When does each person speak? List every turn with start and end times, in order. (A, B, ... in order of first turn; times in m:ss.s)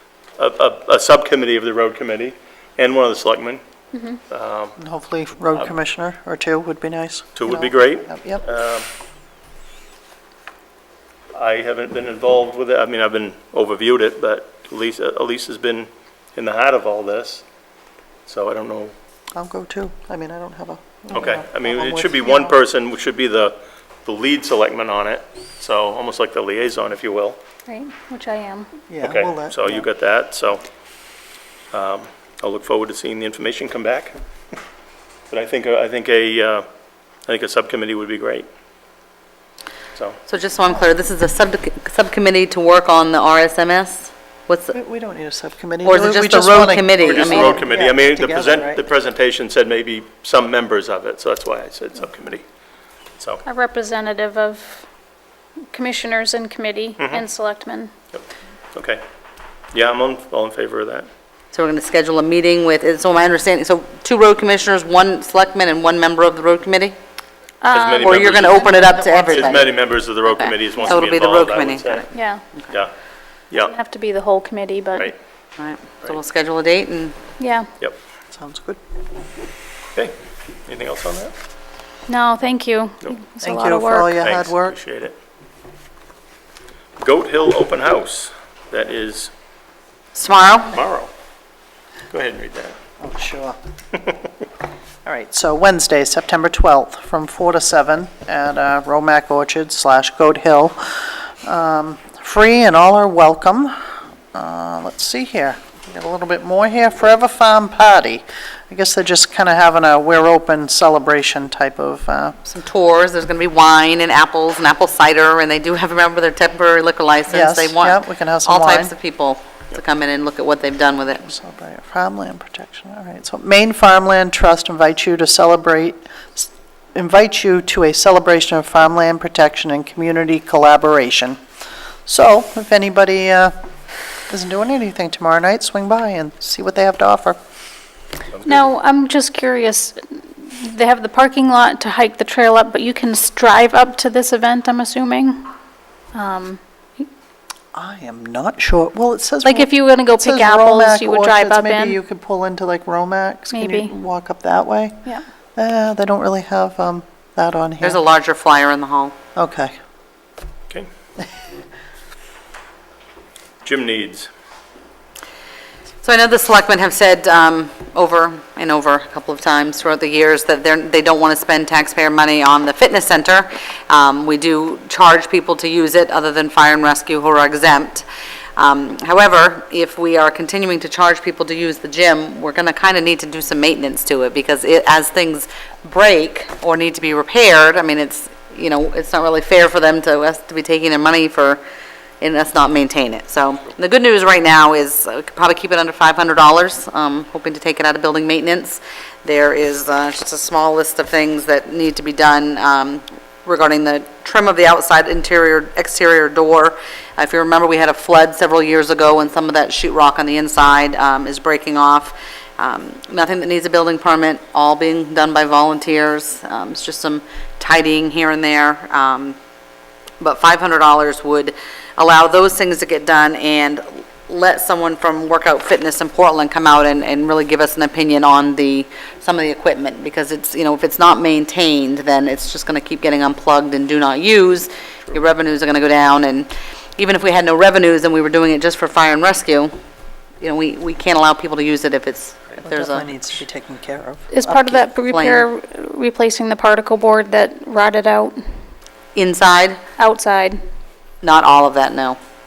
0:00.4-0:03.6 A
0:03.9-0:04.2 B
0:04.3-0:04.8 A
0:04.8-0:08.4 C
0:07.4-0:08.9 A
0:11.3-0:17.4 A
0:18.2-0:18.9 A
0:19.3-0:22.6 C
0:21.1-0:27.4 A
0:27.7-0:28.7 B
0:28.9-0:29.9 C
0:29.0-0:30.6 A
0:31.7-0:34.1 A
0:35.3-0:36.6 A
0:37.3-0:38.5 A
0:39.9-0:40.2 A
0:40.3-0:44.8 D
0:44.7-0:48.8 C
0:45.8-0:47.6 D
0:47.0-0:52.4 A
0:53.4-0:54.8 B
0:55.7-0:57.9 B
0:58.1-0:59.0 A
0:59.7-1:01.1 A
1:01.5-1:06.9 D
1:07.6-1:09.5 B
1:07.7-1:12.0 A
1:08.0-1:12.1 D
1:12.1-1:12.4 B
1:13.6-1:15.1 B
1:15.6-1:17.1 D
1:17.4-1:17.7 B
1:18.3-1:18.8 C
1:20.7-1:21.3 A
1:22.1-1:24.2 B
1:23.4-1:24.8 C
1:24.2-1:25.2 A
1:27.0-1:29.3 A
1:30.1-1:30.7 D
1:30.7-1:31.1 A
1:32.1-1:32.8 A
1:33.0-1:33.6 C
1:35.0-1:43.8 C
1:44.3-1:52.4 C
1:52.4-2:01.3 D
1:57.3-1:58.9 C
2:01.2-2:11.4 C
2:12.0-2:13.5 C
2:14.3-2:17.4 C
2:18.4-2:25.4 B
2:26.1-2:27.1 B
2:27.7-2:35.0 C
2:29.4-2:32.0 B
2:33.5-2:33.9 B
2:35.6-2:38.0 C
2:37.8-2:39.1 D
2:39.4-2:39.7 C
2:43.6-2:44.3 A
2:46.0-2:58.0 D
2:58.6-3:11.6 D
3:12.2-3:39.4 D
3:40.2-3:59.7 D
4:00.4-4:03.2 D
4:02.6-4:04.8 C
4:04.3-4:08.4 B
4:04.7-4:05.5 D
4:09.1-4:09.8 D
4:10.0-4:10.6 B
4:11.2-4:12.2 D